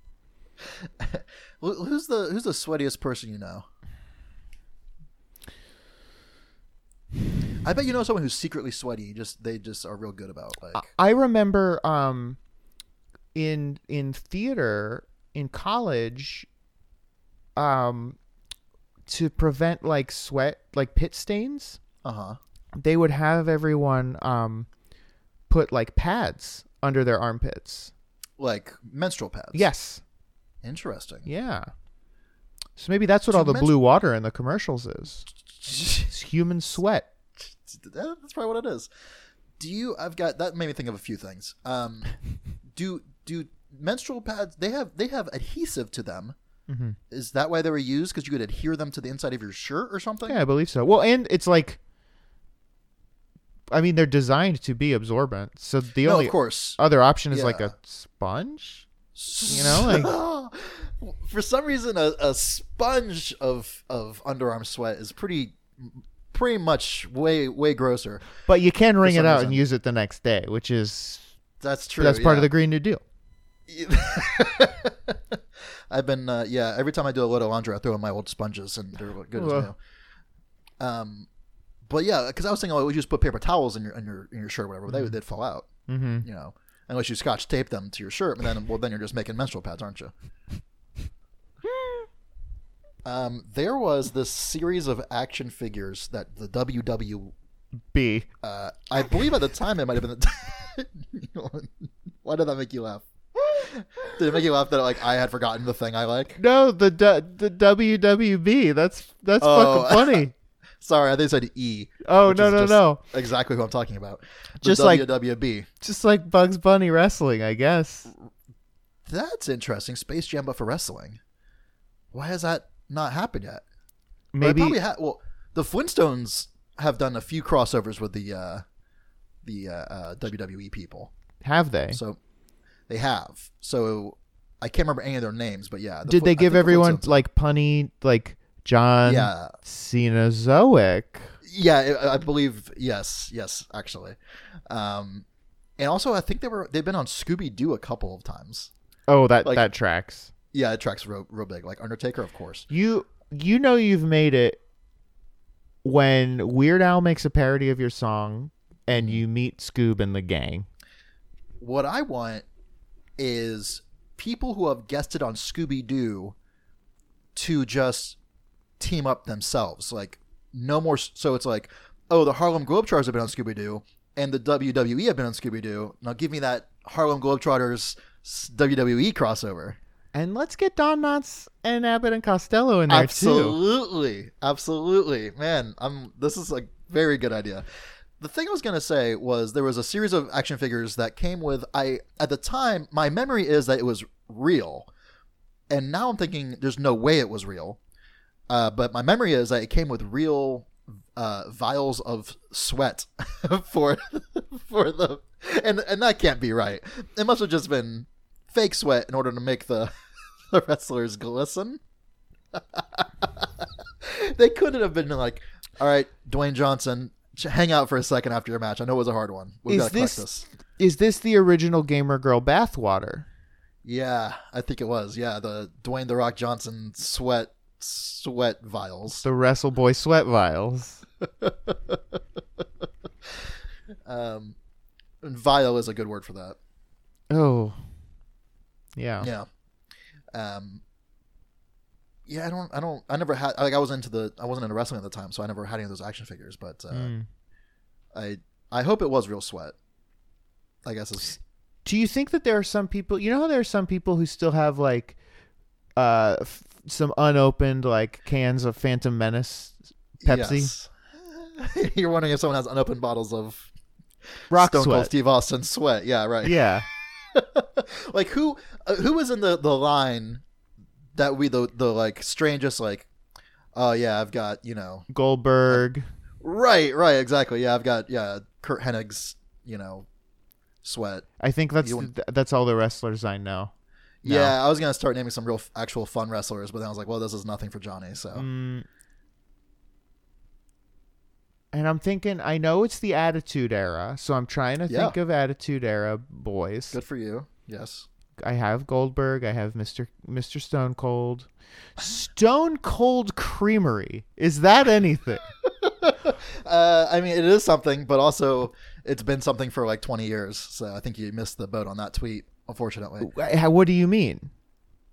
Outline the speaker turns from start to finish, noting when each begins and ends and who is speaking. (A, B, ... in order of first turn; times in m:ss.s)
0:01.0-0:03.6 A
0:07.6-0:10.9 A
0:10.7-0:12.4 B
0:13.3-0:16.5 B
0:17.6-0:18.2 B
0:19.1-0:21.8 B
0:22.0-0:22.4 A
0:22.8-0:24.7 B
0:25.5-0:27.9 B
0:28.4-0:29.7 A
0:29.5-0:30.0 B
0:30.6-0:31.3 A
0:31.2-0:31.7 B
0:32.8-0:37.1 B
0:33.3-0:33.7 A
0:37.4-0:38.9 A
0:39.6-0:42.1 A
0:42.7-0:46.4 A
0:46.7-0:47.0 B
0:47.1-0:50.4 A
0:50.2-0:51.8 B
0:53.7-0:58.9 B
0:56.0-0:56.8 A
0:57.3-0:57.7 A
0:59.1-1:08.3 A
0:59.4-1:00.1 B
1:08.4-1:11.3 B
1:09.0-1:09.6 A
1:11.6-1:12.5 A
1:12.0-1:13.0 B
1:13.7-1:15.4 A
1:15.9-1:19.8 A
1:19.3-1:19.7 B
1:20.8-1:21.3 A
1:21.9-1:25.7 A
1:24.9-1:25.1 B
1:25.9-1:26.2 B
1:26.2-1:30.1 A
1:33.0-1:37.3 A
1:37.9-1:38.3 B
1:38.4-1:46.4 A
1:46.4-1:50.3 B
1:49.4-1:50.2 A
1:50.8-1:55.6 A
1:52.0-1:53.0 B
1:54.6-1:55.1 B
1:55.8-1:58.1 B
1:59.0-2:01.2 A
2:02.1-2:03.6 A
2:04.3-2:04.8 B
2:04.4-2:08.6 A
2:09.4-2:11.1 A
2:11.4-2:12.0 B
2:11.9-2:12.2 A
2:12.9-2:17.2 A
2:16.1-2:21.3 B
2:19.0-2:19.5 A
2:21.4-2:24.2 A
2:24.7-2:25.2 A
2:25.8-2:28.7 A
2:29.1-2:30.3 B
2:30.5-2:32.7 A
2:32.7-2:34.6 B
2:35.8-2:40.7 B
2:38.9-2:39.2 A
2:41.6-2:42.4 A
2:43.2-2:46.3 A
2:47.3-2:48.2 A
2:48.8-2:59.8 A
3:00.1-3:03.6 B
3:02.9-3:07.6 A
3:08.2-3:14.9 A
3:15.7-3:17.8 A
3:18.5-3:29.9 A
3:30.5-3:31.8 A
3:32.5-3:40.4 A
3:39.7-3:40.2 B
3:40.8-3:43.2 B
3:43.8-3:49.2 A
3:49.2-3:51.0 B
3:51.4-3:52.0 A
3:54.0-3:54.6 A
3:55.2-3:56.6 A
3:57.3-3:57.8 B
3:59.0-3:59.3 B
3:59.2-3:59.5 A
4:00.3-4:00.8 A
4:02.3-4:07.1 A
4:06.9-4:07.2 B
4:08.1-4:09.7 A
4:10.8-4:11.4 A
4:11.8-4:15.2 B
4:16.0-4:20.7 B
4:20.2-4:23.7 A
4:24.5-4:26.6 A
4:24.5-4:25.1 B
4:26.4-4:26.9 B
4:27.3-4:30.4 A
4:31.1-4:33.1 A
4:33.7-4:35.0 A
4:35.1-4:36.0 B
4:36.4-4:40.1 A
4:40.8-4:41.2 A
4:41.4-4:43.7 B
4:41.8-4:42.1 A
4:44.2-4:48.4 A
4:44.2-4:44.6 B
4:48.3-4:48.8 B
4:51.7-4:57.0 B
4:54.9-4:55.2 A
4:56.9-4:58.1 A
4:58.4-5:05.4 B
5:05.6-5:13.3 A
5:13.2-5:14.5 B